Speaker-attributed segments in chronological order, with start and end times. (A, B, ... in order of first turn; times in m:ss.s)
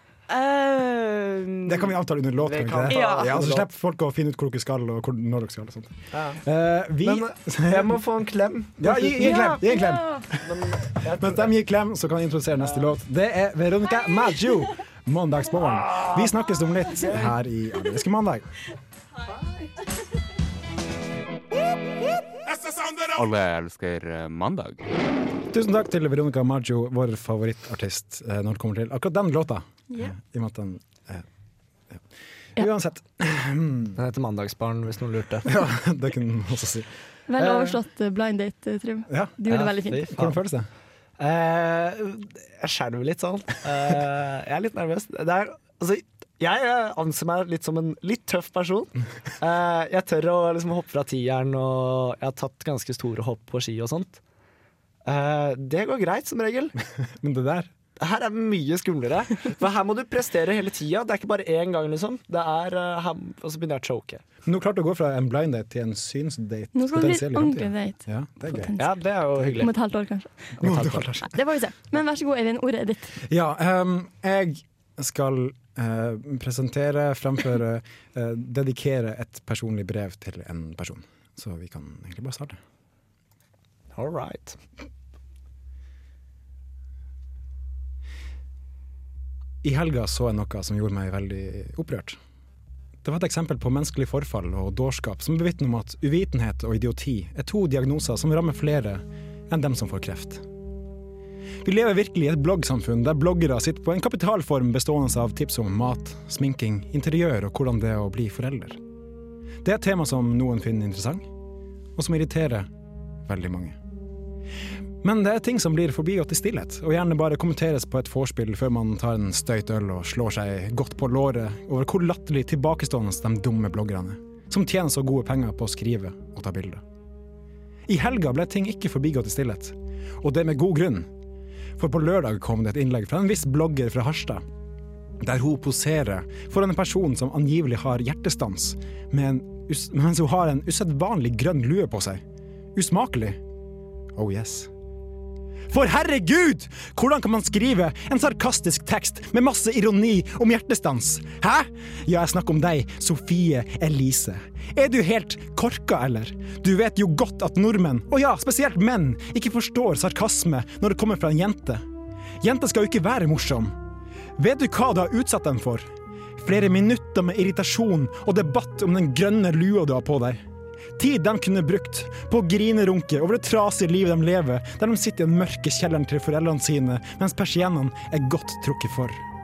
0:00.3-0:01.9 A
0:01.6-0:08.0 B
0:02.4-0:03.7 C
0:02.9-0:03.3 A
0:06.1-0:06.4 C
0:07.0-0:09.6 C
0:08.8-0:18.5 B
0:09.7-0:10.2 D
0:10.4-0:11.5 C
0:15.7-0:16.3 C
0:16.9-0:17.3 C
0:22.4-0:24.8 E
0:25.5-0:31.2 B
0:32.6-0:34.0 B
0:34.0-0:35.5 C
0:35.4-0:36.9 B
0:37.3-0:40.1 D
0:39.1-0:39.4 B
0:39.5-0:40.4 C
0:40.1-0:40.7 B
0:41.2-0:54.2 C
0:55.0-0:56.7 C
0:57.0-0:57.7 B
0:58.0-1:04.2 C
1:04.4-1:08.7 B
1:06.7-1:09.0 D
1:08.8-1:09.7 C
1:09.6-1:10.6 D
1:10.6-1:11.1 C
1:10.6-1:11.3 B
1:11.2-1:13.2 D
1:13.2-1:22.6 B
1:23.9-1:24.6 C
1:29.6-1:32.2 B
1:33.0-1:40.4 B
1:41.6-1:48.8 B
1:49.6-1:51.3 B
1:52.0-1:52.7 B
1:53.2-1:53.8 B
1:55.0-2:06.8 B
2:07.9-2:11.1 B
2:11.8-2:14.4 B
2:15.2-2:22.2 B
2:22.7-2:23.4 B
2:24.1-2:24.7 B
2:25.7-2:41.8 B
2:42.4-2:43.8 B
2:44.4-2:45.9 B
2:46.4-2:50.4 B
2:51.0-2:59.2 B